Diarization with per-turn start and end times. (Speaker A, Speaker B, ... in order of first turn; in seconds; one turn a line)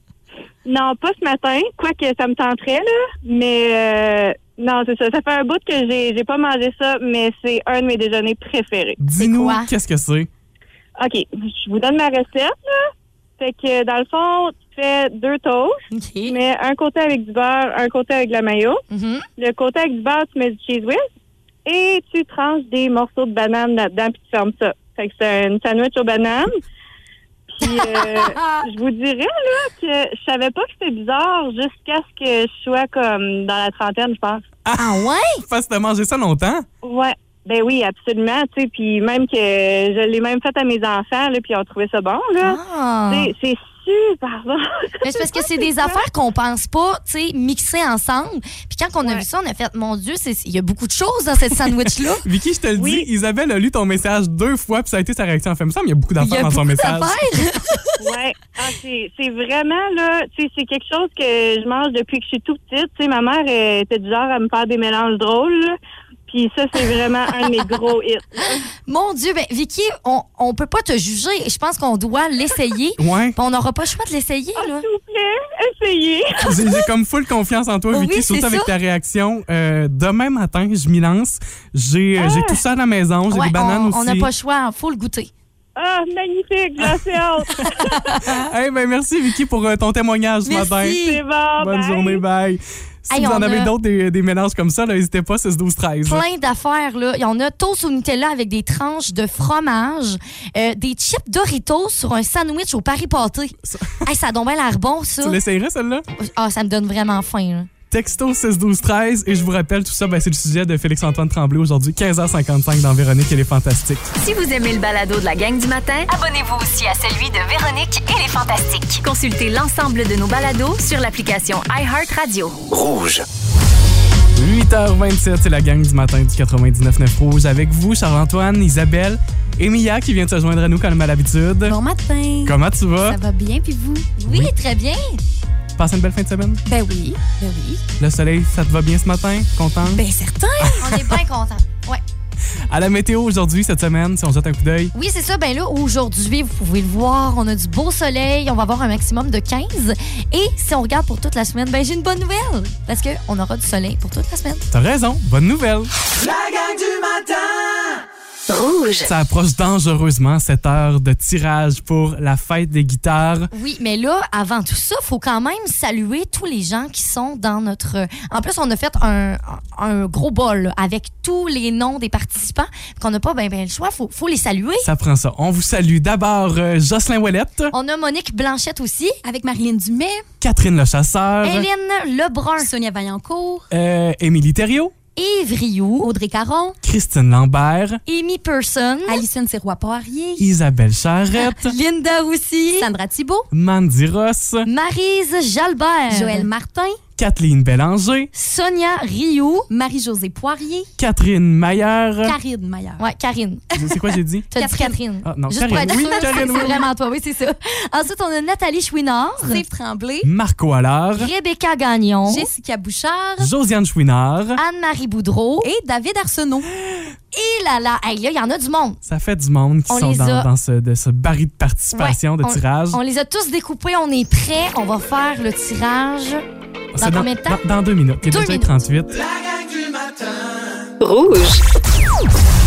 Speaker A: 0.7-9.0
Speaker B: 9.0-10.3
Speaker C: 9.2-9.7
Speaker A: 11.0-15.7
Speaker C: 15.9-16.4
Speaker A: 16.3-18.8
Speaker C: 18.9-19.2
Speaker A: 19.4-21.0
Speaker A: 21.6-26.5
Speaker A: 27.5-34.4
Speaker C: 27.6-28.6
Speaker B: 34.6-36.6
Speaker C: 34.7-35.4
Speaker A: 36.8-42.6
Speaker C: 42.4-43.3
Speaker A: 43.1-46.0
Speaker C: 45.0-52.2
Speaker B: 52.2-57.6
Speaker A: 52.8-53.1
Speaker C: 56.2-58.0
Speaker A: 58.0-65.8
Speaker A: 66.3-68.6
Speaker C: 68.9-74.9
Speaker B: 73.0-73.4
Speaker A: 74.5-76.7
Speaker B: 76.4-84.3
Speaker C: 77.9-78.7
Speaker A: 82.2-82.6
Speaker C: 83.3-85.3
Speaker A: 85.8-88.2
Speaker C: 87.6-88.2
Speaker B: 88.2-91.0
Speaker C: 90.5-91.2
Speaker A: 90.9-92.2
Speaker B: 91.6-96.2
Speaker C: 93.1-93.7
Speaker C: 96.0-105.4
Speaker B: 103.6-104.0
Speaker B: 105.2-106.0
Speaker C: 106.2-107.7
Speaker B: 107.9-114.1
Speaker D: 114.2-122.6
Speaker E: 122.7-123.2
Speaker B: 124.3-131.8
Speaker F: 131.6-134.1
Speaker B: 132.4-133.2
Speaker C: 134.2-135.2
Speaker B: 134.3-134.5
Speaker B: 135.8-136.6
Speaker F: 136.6-137.8
Speaker B: 138.0-140.0
Speaker F: 139.8-140.9
Speaker B: 140.6-141.2
Speaker C: 140.8-142.0
Speaker B: 142.7-144.9
Speaker C: 144.9-154.6
Speaker B: 154.7-155.9
Speaker E: 156.2-158.0
Speaker D: 158.5-159.1
Speaker B: 159.0-163.5
Speaker C: 163.5-174.9
Speaker B: 174.8-177.7
Speaker C: 177.7-179.2
Speaker F: 179.2-180.2
Speaker B: 180.4-181.7
Speaker C: 181.4-182.7
Speaker F: 182.6-183.6
Speaker B: 183.7-184.9
Speaker C: 185.2-186.1
Speaker F: 186.0-186.8
Speaker B: 186.8-188.0
Speaker C: 188.1-189.2
Speaker F: 189.1-190.5
Speaker B: 190.4-191.8
Speaker C: 191.4-192.9
Speaker F: 192.8-193.5
Speaker B: 193.5-194.7
Speaker C: 194.6-196.5
Speaker F: 196.1-197.0
Speaker B: 197.2-198.3
Speaker C: 198.3-199.7
Speaker F: 199.7-200.9
Speaker B: 201.0-202.3
Speaker F: 202.2-203.0
Speaker C: 203.0-203.7
Speaker F: 203.7-205.0
Speaker B: 203.7-204.5
Speaker C: 204.5-209.6
Speaker B: 205.2-206.8
Speaker F: 205.7-206.8
Speaker F: 209.4-210.3
Speaker B: 210.2-211.3
Speaker C: 211.2-212.5
Speaker F: 212.2-213.5
Speaker B: 213.4-214.6
Speaker C: 214.6-215.7
Speaker F: 215.6-216.7
Speaker C: 217.3-219.0
Speaker B: 219.0-223.0
Speaker C: 219.9-220.5
Speaker C: 221.9-226.4
Speaker B: 226.9-229.1
Speaker C: 227.0-227.6
Speaker C: 228.2-228.8
Speaker E: 229.1-230.9
Speaker D: 231.0-231.6